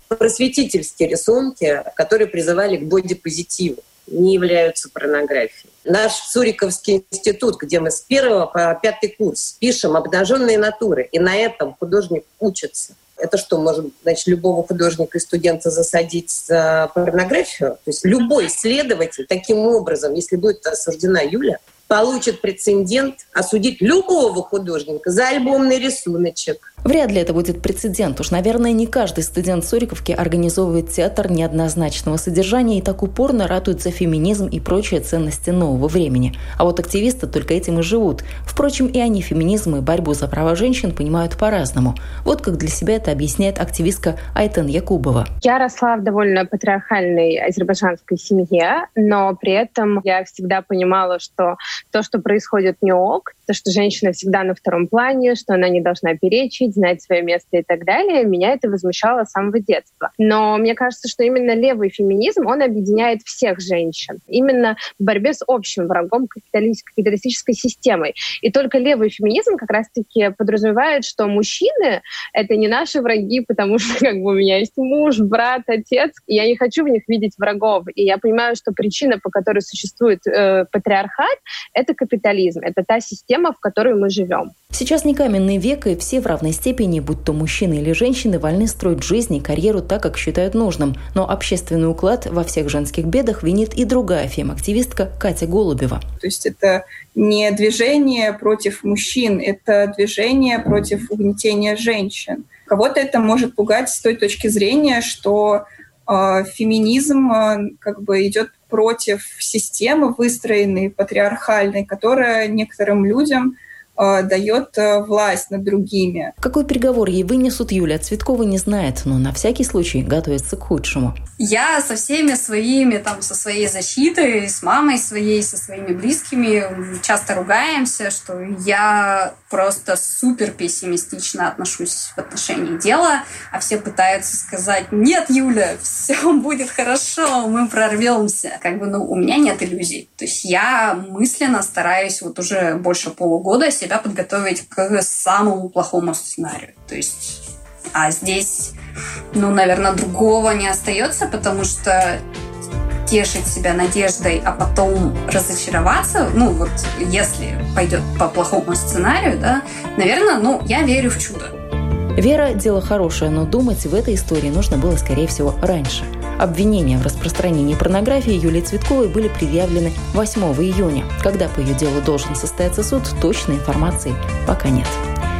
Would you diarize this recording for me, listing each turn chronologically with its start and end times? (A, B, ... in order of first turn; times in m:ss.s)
0:00.2-0:26.6 A
0:26.8-0:45.3 B
0:45.4-1:24.5 C
1:24.7-1:36.0 B
1:36.2-1:56.3 D
1:56.4-2:01.1 B
2:01.4-2:27.4 E
2:27.9-2:28.7 E
2:29.3-2:32.2 E
2:33.0-2:41.5 E
2:42.2-2:55.0 B